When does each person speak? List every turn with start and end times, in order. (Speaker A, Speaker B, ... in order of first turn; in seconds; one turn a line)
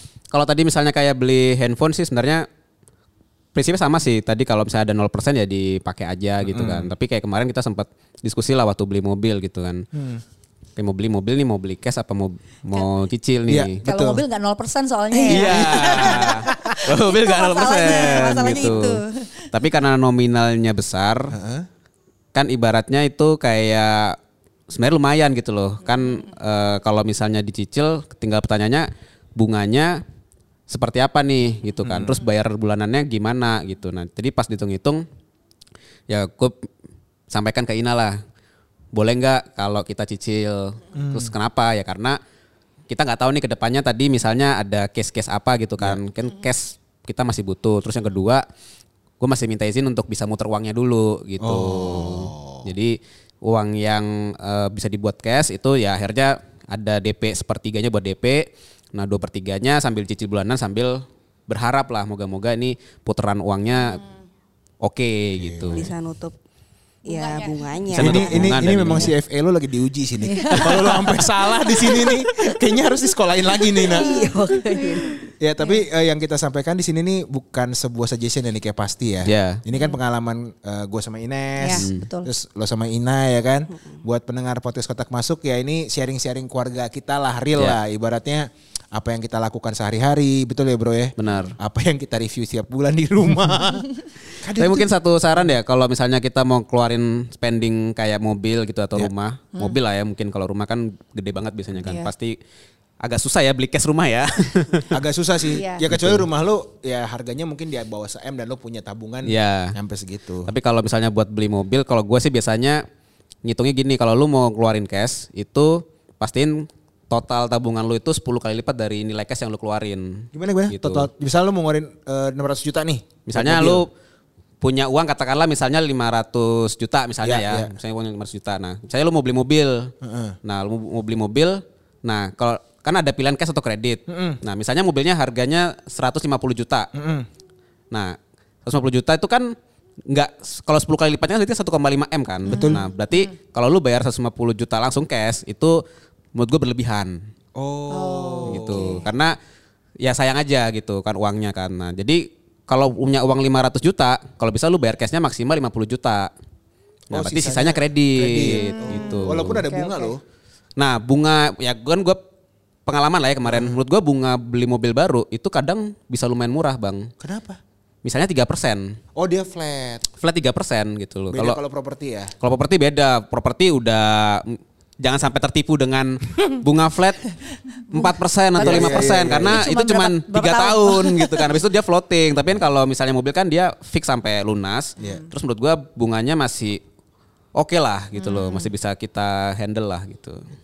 Speaker A: 0.3-2.4
Speaker A: 3.5-9.8
Speaker B: 6.4-6.9
Speaker B: 9.9-10.2
Speaker A: 10.8-13.8
Speaker B: 13.5-14.2
Speaker C: 13.8-19.5
Speaker A: 15.2-21.3
Speaker B: 15.4-16.4
Speaker B: 21.3-21.7
Speaker A: 22.3-24.2
Speaker A: 24.7-30.0
Speaker C: 25.9-26.2
Speaker A: 30.7-35.0
Speaker B: 31.8-32.2
Speaker A: 36.1-36.7
Speaker A: 37.3-38.2
Speaker A: 38.9-42.2
Speaker B: 40.9-41.3
Speaker A: 42.9-48.4
Speaker A: 49.2-64.0
Speaker B: 51.4-52.7
Speaker C: 63.7-64.1
Speaker A: 64.8-65.9
Speaker B: 65.4-65.8
Speaker D: 65.8-66.3
Speaker D: 67.0-68.6
Speaker C: 67.1-69.1
Speaker A: 67.9-69.1
Speaker B: 68.0-74.2
Speaker C: 70.2-72.5
Speaker C: 73.7-75.8
Speaker D: 73.9-75.2
Speaker B: 75.4-95.5
Speaker A: 79.3-79.6
Speaker C: 81.6-82.3
Speaker A: 81.7-82.1
Speaker A: 91.2-91.5
Speaker A: 94.5-102.3
Speaker C: 101.8-102.1
Speaker A: 103.0-104.9
Speaker B: 104.9-110.5
Speaker C: 105.5-105.9
Speaker A: 105.9-106.2
Speaker A: 109.2-109.7
Speaker A: 110.5-112.8
Speaker A: 113.4-121.1
Speaker B: 120.3-123.8
Speaker A: 123.3-123.9
Speaker A: 124.6-129.9
Speaker B: 127.2-127.7
Speaker B: 130.0-130.4
Speaker A: 130.4-136.9
Speaker B: 134.1-134.4
Speaker B: 136.9-137.3
Speaker A: 137.9-139.5
Speaker A: 140.1-145.8
Speaker C: 142.4-143.3
Speaker B: 142.5-142.8
Speaker A: 146.3-147.2
Speaker B: 147.6-149.1
Speaker C: 147.9-149.0
Speaker A: 148.5-149.3
Speaker A: 150.0-156.3
Speaker A: 157.1-159.6
Speaker B: 157.1-160.2
Speaker C: 158.5-160.1
Speaker A: 160.8-162.2
Speaker A: 162.8-167.1
Speaker B: 163.4-163.8
Speaker B: 167.2-167.6
Speaker A: 168.0-168.9
Speaker B: 169.2-170.1
Speaker A: 170.1-171.6
Speaker B: 171.3-172.3
Speaker A: 172.4-177.3
Speaker C: 177.7-181.6
Speaker A: 177.9-186.8
Speaker B: 178.6-179.7
Speaker B: 185.0-185.2
Speaker C: 185.0-185.3
Speaker A: 187.6-190.4
Speaker C: 188.1-188.7